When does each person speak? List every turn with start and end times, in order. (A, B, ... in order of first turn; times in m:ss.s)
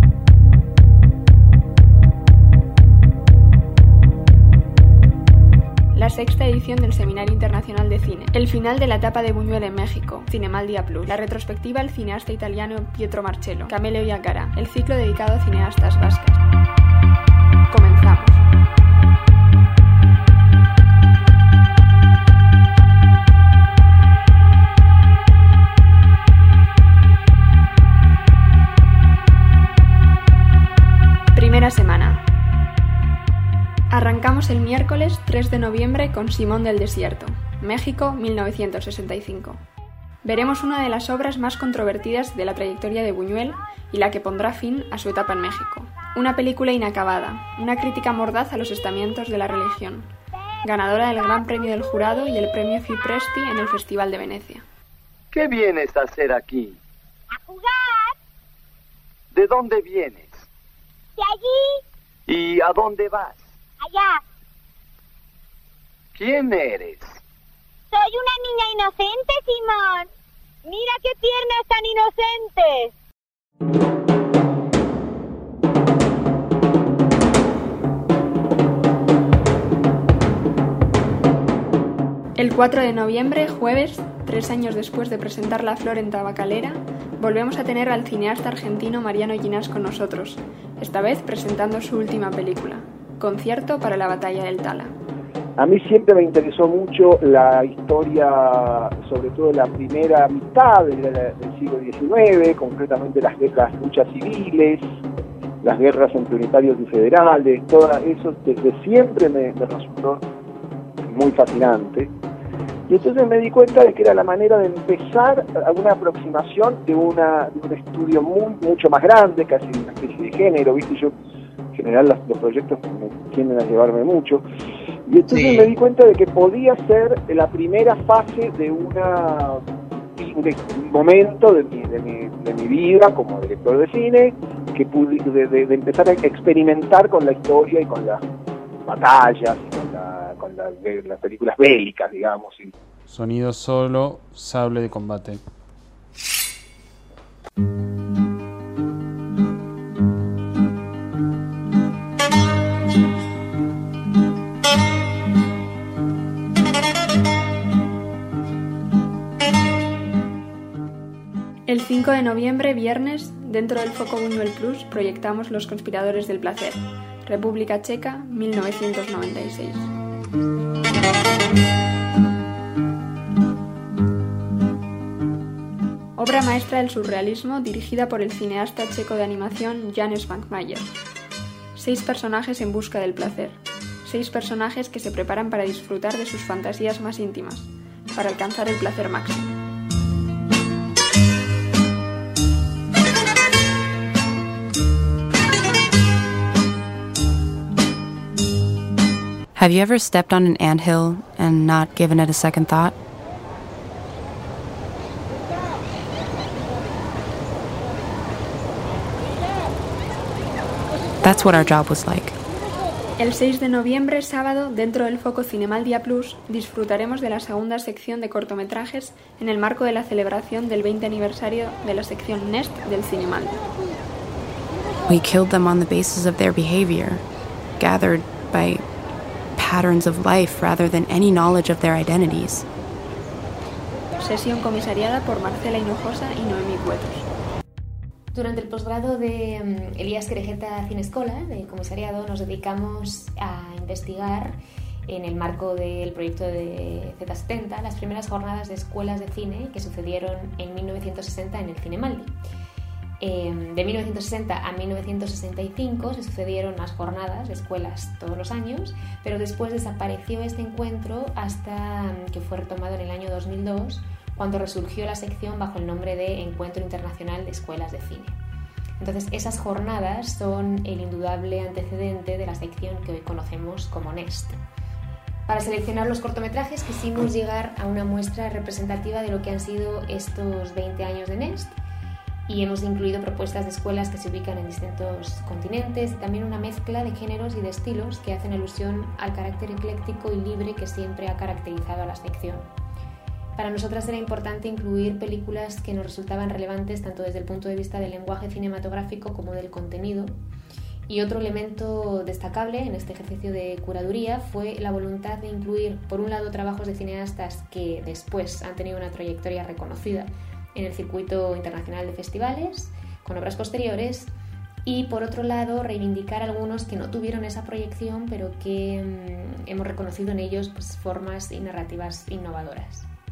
0:05.9-0:16.4 A
0:17.7-0:18.4 A
0:31.3-0:32.3 A
0:33.9-0:39.6 A
0:40.2-0:50.1 A
0:50.6-0:54.6 A
0:55.3-0:56.8 B
0:59.3-1:00.5 B
1:01.2-1:01.6 C
1:02.3-1:03.5 B
1:06.2-1:07.2 B
1:08.0-1:10.0 C
1:08.3-1:08.5 D
1:10.7-1:12.9 C
1:22.4-1:34.9 A
1:35.6-1:44.8 E
1:45.6-1:50.2 E
1:51.1-1:52.1 E
1:52.9-2:01.1 E
2:01.8-2:04.4 E
2:05.1-2:09.6 E
2:10.2-2:18.2 E
2:18.9-2:22.7 E
2:23.1-2:25.4 F
2:41.7-2:49.9 A
2:56.2-3:01.0 A
3:01.8-3:09.6 A
3:19.6-3:23.0 D
3:31.2-3:32.4 D
3:33.2-3:43.6 A
3:45.1-3:47.2 D
3:47.8-3:48.8 D
3:49.6-3:52.6 D
3:54.2-3:57.3 A
3:58.3-4:12.3 G
4:13.2-4:28.4 G
4:29.0-4:34.6 G
4:35.5-4:41.8 G
4:42.5-4:52.7 G
4:53.6-5:00.4 G
5:01.1-5:14.3 G
5:14.8-5:23.1 G